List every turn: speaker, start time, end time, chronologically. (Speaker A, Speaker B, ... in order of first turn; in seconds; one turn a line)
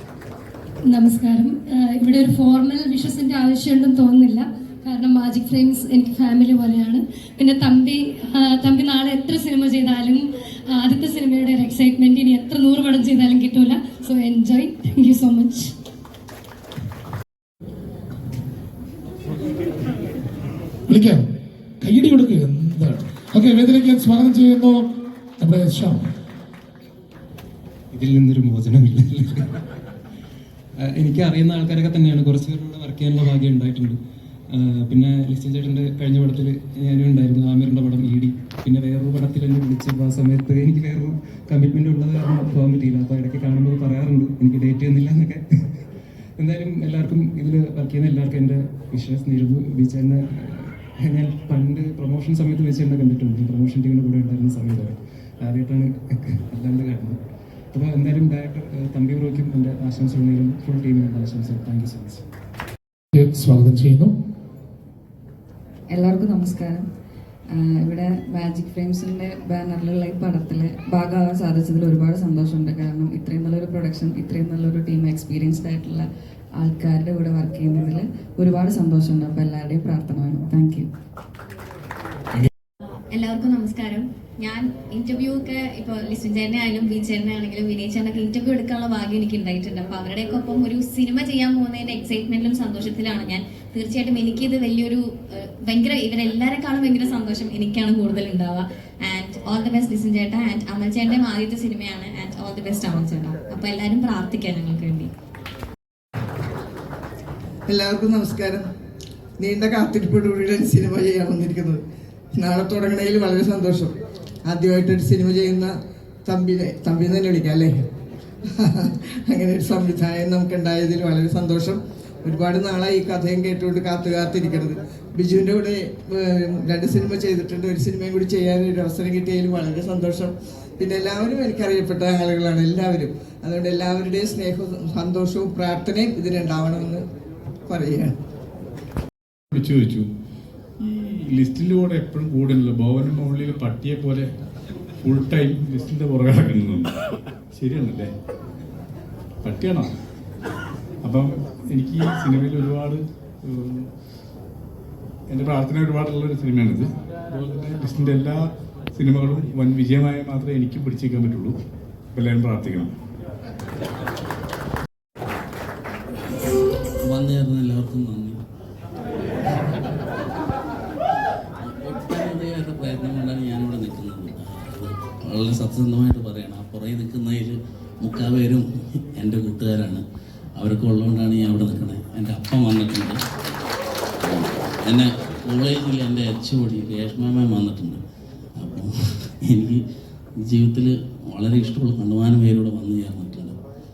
Speaker A: 0.9-15.7
Speaker B: 20.9-21.3
Speaker B: 21.8-26.1
Speaker C: 27.9-29.5
Speaker C: 30.8-34.0
Speaker C: 34.5-45.6
Speaker C: 46.4-57.2
Speaker C: 57.7-62.2
Speaker B: 63.1-64.1
Speaker D: 65.9-66.8
Speaker D: 67.6-76.0
Speaker D: 76.6-80.9
Speaker E: 83.1-105.1
Speaker F: 107.7-108.7
Speaker F: 109.4-111.8
Speaker F: 112.3-113.9
Speaker F: 114.5-115.7
Speaker F: 116.2-117.8
Speaker F: 118.5-137.0
Speaker F: 137.7-138.2
Speaker G: 139.5-140.1
Speaker G: 140.8-144.3
Speaker G: 145.0-146.9
Speaker G: 147.5-148.1
Speaker G: 149.4-149.9
Speaker G: 151.0-153.9
Speaker G: 155.3-161.6
Speaker G: 162.1-162.9
Speaker H: 167.0-168.4
Speaker H: 171.6-180.0
Speaker H: 180.6-183.2
Speaker H: 184.2-188.0
Speaker H: 188.6-189.8
Speaker H: 190.4-193.6